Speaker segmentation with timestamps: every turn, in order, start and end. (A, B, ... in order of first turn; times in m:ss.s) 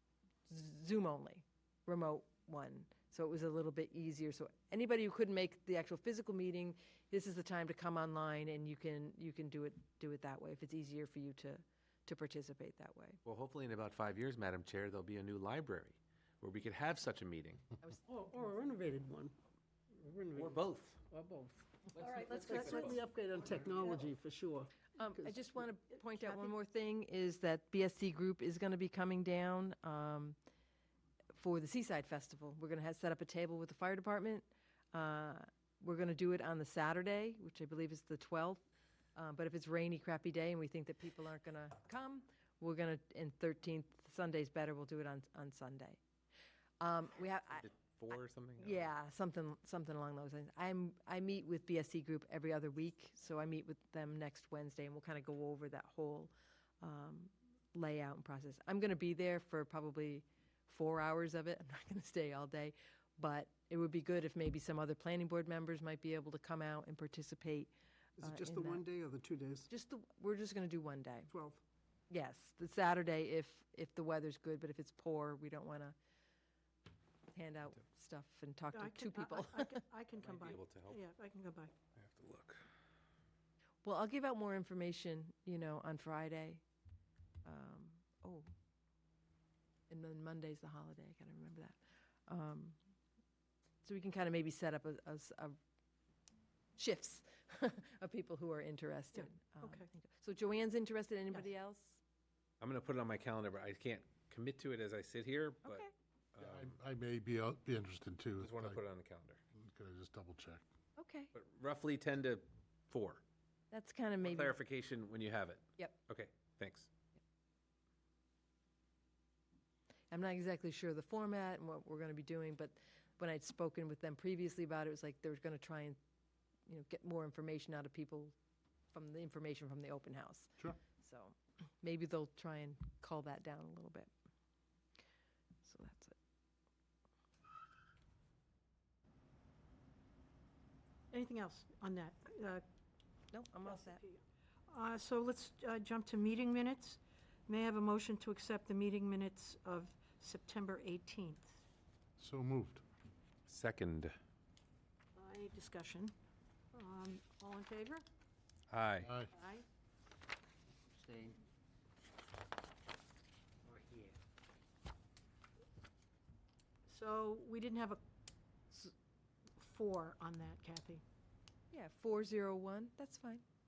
0:00.5-0:13.2 A
0:13.2-0:17.6 B
0:18.1-0:19.3 C
0:19.9-0:25.6 C
0:20.3-0:21.0 B
0:22.0-0:23.0 B
0:22.2-0:23.0 D
0:22.5-0:22.8 A
0:24.9-0:30.4 A
0:26.2-0:26.4 D
0:31.3-0:38.6 A
0:39.2-0:46.0 A
0:46.8-0:47.8 A
0:47.5-0:48.9 B
0:48.6-1:07.7 A
1:08.2-1:09.7 C
1:08.2-1:08.8 A
1:09.7-1:11.3 A
1:11.3-1:11.6 C
1:12.1-1:15.9 A
1:17.3-1:19.8 A
1:18.7-1:21.7 D
1:20.2-1:21.0 B
1:21.9-1:22.6 B
1:23.8-1:26.6 A
1:27.4-1:28.5 A
1:29.9-1:32.8 A
1:33.8-1:35.6 A
1:36.8-1:42.0 A
1:39.1-1:39.9 D
1:42.6-1:46.8 B
1:45.6-1:45.9 A
1:46.4-1:48.8 E
1:48.4-1:49.4 B
1:49.5-1:50.6 E
1:51.0-1:51.3 A
1:51.3-1:53.2 B
1:53.7-1:54.5 A
1:54.2-1:56.9 B
2:00.1-2:06.0 A
2:06.7-2:08.3 A
2:08.9-2:14.1 A
2:15.6-2:16.1 A
2:21.1-2:22.6 D
2:23.3-2:24.0 A
2:23.6-2:31.6 D
2:32.2-2:32.8 E
2:33.5-2:34.1 B
2:35.2-2:36.1 D
2:36.7-2:38.0 D
2:38.7-2:39.1 B
2:39.0-2:39.3 E
2:39.3-2:39.6 D
2:46.9-2:48.0 D
2:49.6-2:51.0 D
2:51.7-2:53.4 A